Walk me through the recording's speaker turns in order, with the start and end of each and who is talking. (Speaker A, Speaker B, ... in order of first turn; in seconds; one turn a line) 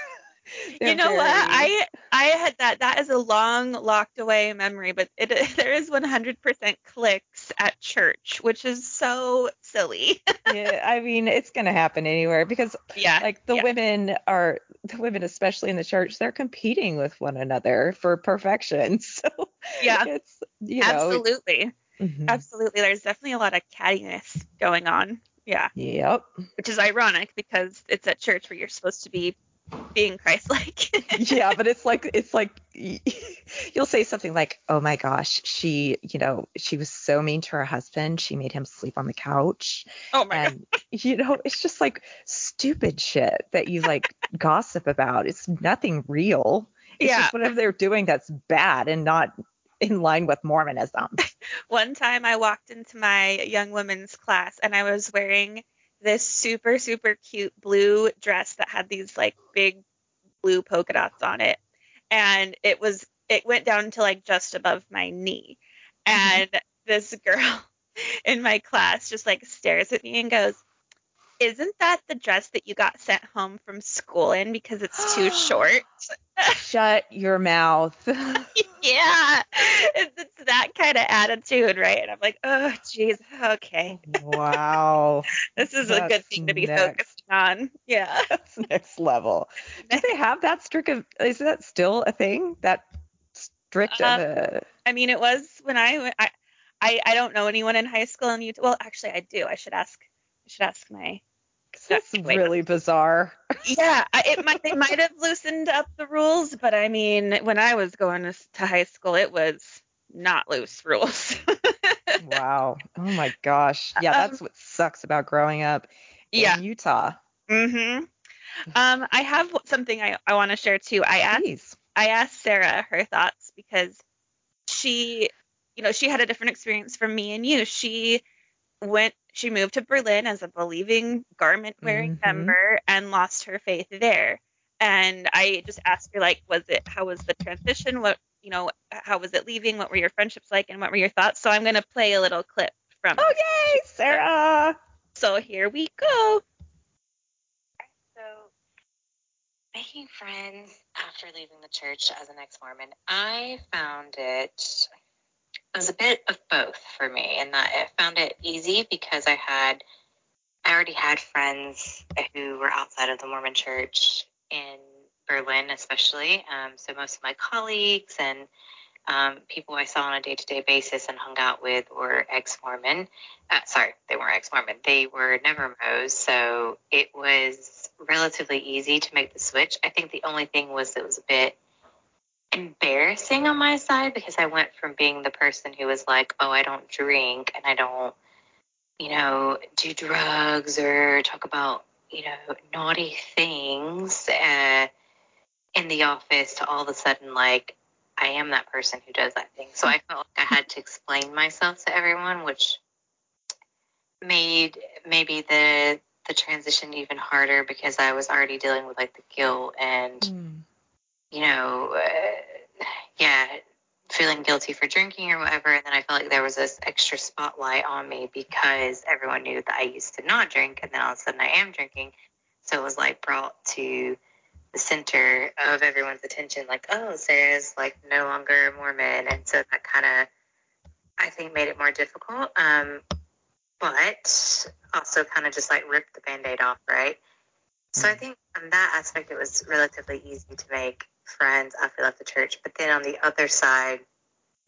Speaker A: 0.8-1.7
Speaker B: 0.8-10.4
Speaker A: 10.5-21.2
Speaker B: 13.0-13.7
Speaker B: 19.8-20.1
Speaker B: 20.8-21.7
Speaker A: 22.0-22.4
Speaker B: 22.3-25.7
Speaker A: 25.8-26.3
Speaker B: 26.6-29.4
Speaker B: 29.9-31.4
Speaker A: 31.1-51.2
Speaker B: 40.1-40.5
Speaker B: 47.0-47.4
Speaker B: 51.2-59.8
Speaker B: 60.4-61.6
Speaker B: 62.1-67.7
Speaker A: 66.2-66.4
Speaker B: 68.3-70.6
Speaker B: 71.4-75.9
Speaker A: 75.0-75.7
Speaker A: 76.6-78.5
Speaker B: 78.6-84.4
Speaker A: 83.9-87.0
Speaker B: 85.6-88.3
Speaker A: 88.3-94.7
Speaker B: 93.9-94.2
Speaker B: 94.9-96.3
Speaker B: 96.8-101.2
Speaker A: 101.8-103.4
Speaker B: 101.9-102.5
Speaker B: 103.7-112.2
Speaker A: 104.4-104.8
Speaker A: 112.2-117.2
Speaker B: 114.0-114.4
Speaker B: 116.3-116.6
Speaker B: 117.5-118.1
Speaker B: 118.7-124.0
Speaker A: 121.3-121.8
Speaker B: 124.7-128.2
Speaker B: 128.8-143.3
Speaker A: 131.8-132.6
Speaker A: 143.2-144.8
Speaker B: 145.2-146.4
Speaker C: 148.0-148.5
Speaker C: 149.7-154.9
Speaker C: 155.7-159.8
Speaker C: 160.7-168.5
Speaker C: 169.1-181.6
Speaker C: 182.5-188.2
Speaker C: 189.0-194.9
Speaker C: 195.8-202.8
Speaker C: 204.2-210.3
Speaker A: 210.2-210.7
Speaker C: 211.3-222.1
Speaker C: 222.6-224.2
Speaker C: 224.7-230.3
Speaker C: 231.2-233.0
Speaker C: 233.8-237.2
Speaker C: 237.9-244.0
Speaker A: 238.0-238.2